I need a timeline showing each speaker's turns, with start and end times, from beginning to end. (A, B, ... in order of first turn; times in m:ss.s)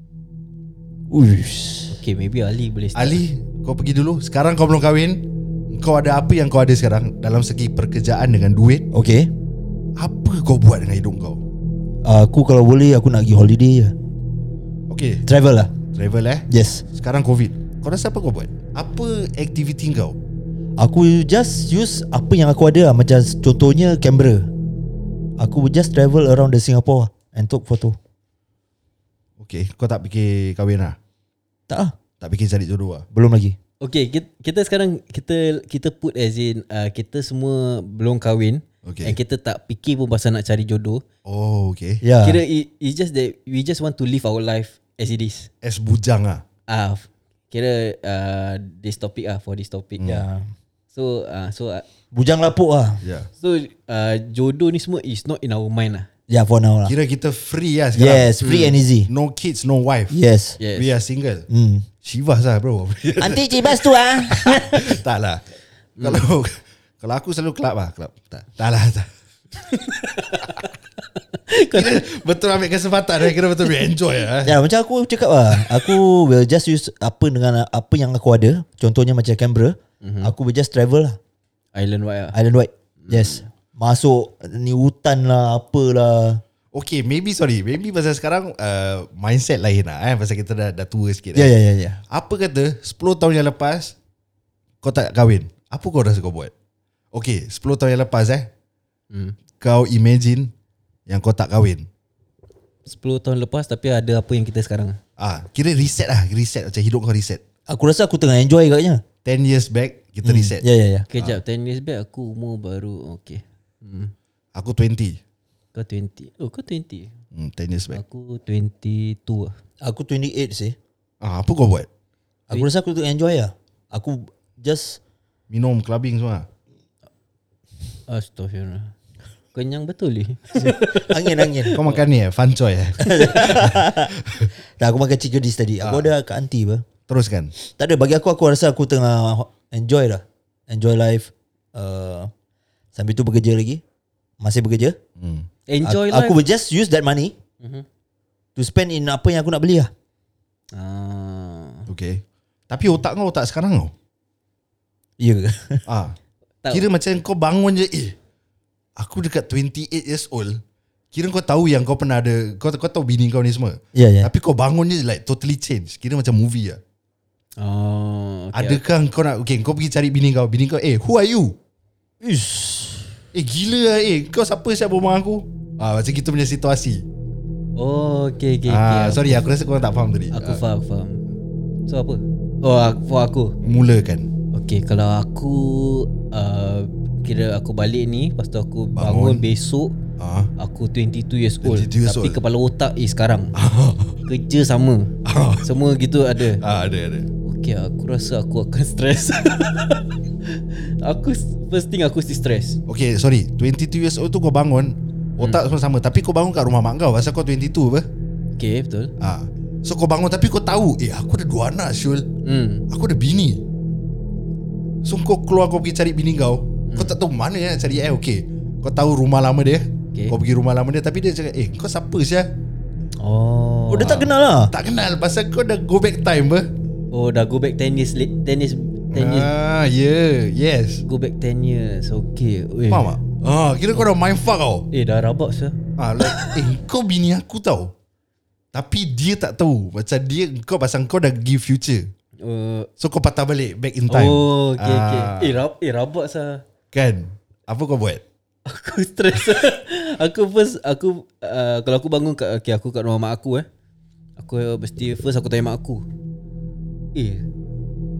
0:01.1-0:02.0 A
0:01.9-0:03.2 B
0:03.0-0:08.9 C
0:08.9-0:09.3 A
0:10.0-0:11.4 C
0:12.0-0:14.0 A
0:14.9-0:15.2 C
0:15.3-0:15.8 A
0:15.9-0:20.2 C
0:16.5-0:16.8 A
0:20.8-0:24.5 A
0:25.4-0:28.0 A
0:29.4-0:31.0 C
0:31.7-0:32.0 A
0:32.2-0:33.1 C
0:33.1-0:33.6 A
0:33.8-0:41.0 B
0:38.8-0:39.2 C
0:41.2-0:42.0 C
0:42.0-0:42.4 A
0:42.2-0:45.5 B
0:45.6-0:46.4 C
0:46.7-0:50.2 B
0:50.0-0:50.5 A
0:50.9-0:51.9 B
0:52.1-0:53.0 A
0:53.0-0:53.3 C
0:53.4-0:56.1 B
0:56.3-0:57.0 A
0:56.9-1:00.2 C
0:58.0-0:59.1 A
0:58.4-0:58.8 B
1:00.1-1:00.6 A
1:00.6-1:01.0 B
1:00.8-1:01.5 C
1:01.5-1:01.9 A
1:02.0-1:05.4 C
1:03.2-1:05.0 A
1:06.0-1:09.1 C
1:09.6-1:12.0 B
1:11.7-1:14.6 C
1:14.4-1:21.2 A
1:20.0-1:20.3 B
1:21.8-1:22.4 B
1:22.3-1:26.4 A
1:23.0-1:23.4 B
1:26.7-1:31.5 C
1:31.4-1:32.0 A
1:32.1-1:34.0 C
1:34.8-1:36.5 C
1:37.1-1:38.5 C
1:39.1-1:39.4 B
1:39.6-1:40.5 C
1:41.1-1:41.9 C
1:42.9-1:45.0 B
1:45.2-1:47.4 C
1:47.7-1:49.0 A
1:49.2-1:50.6 C
1:50.2-1:51.1 A
1:51.1-1:54.1 B
1:51.2-1:51.4 C
1:54.6-1:55.2 C
1:55.7-1:57.1 B
1:57.3-1:58.0 C
1:57.9-1:59.6 B
1:59.8-2:00.8 A
2:01.2-2:01.9 C
2:02.5-2:05.0 A
2:05.5-2:06.5 C
2:08.1-2:09.0 B
2:09.5-2:12.0 B
2:10.6-2:11.8 A
2:11.8-2:14.5 C
2:13.0-2:14.1 A
2:13.1-2:13.6 B
2:14.8-2:16.9 A
2:15.8-2:16.1 C
2:17.1-2:17.5 C
2:17.6-2:22.3 A
2:22.9-2:23.8 A
2:24.4-2:25.0 A
2:25.2-2:25.5 C
2:25.7-2:26.4 B
2:25.8-2:27.4 A
2:27.6-2:27.9 B
2:28.6-2:29.9 A
2:30.7-2:31.9 B
2:31.9-2:33.9 C
2:35.2-2:35.8 A
2:35.9-2:36.2 C
2:36.7-2:38.2 C
2:39.0-2:40.6 C
2:41.1-2:46.8 C
2:44.0-2:44.3 A
2:47.6-2:48.8 B
2:48.5-2:51.6 C
2:52.2-2:53.2 A
2:53.3-2:57.0 C
2:57.8-2:59.5 B
2:58.7-3:00.6 C
3:00.3-3:01.2 B
3:01.9-3:03.6 B
3:03.6-3:04.3 C
3:04.5-3:10.0 B
3:09.0-3:09.4 C
3:10.2-3:10.5 C
3:10.6-3:13.6 B
3:11.6-3:12.4 C
3:13.6-3:14.2 C
3:14.3-3:15.1 B
3:15.2-3:15.7 C
3:15.6-3:16.6 B
3:16.4-3:17.3 C
3:17.4-3:22.8 B
3:22.9-3:28.1 C
3:28.6-3:29.1 B
3:29.2-3:32.3 C
3:32.4-3:32.9 B
3:32.9-3:33.6 C
3:35.0-3:42.5 C
3:36.9-3:37.2 B
3:43.2-3:44.2 B
3:43.9-3:44.7 A
3:44.0-3:46.7 C
3:47.1-3:49.5 B
3:49.1-3:51.0 C
3:51.0-3:53.2 B
3:52.9-3:54.9 C
3:54.9-3:56.6 B
3:56.0-3:57.9 C
3:58.7-4:02.1 C
4:02.4-4:02.9 B
4:03.0-4:05.6 C
4:04.1-4:06.6 B
4:06.9-4:08.2 C
4:08.7-4:13.7 B
4:14.4-4:16.0 B
4:17.2-4:17.5 B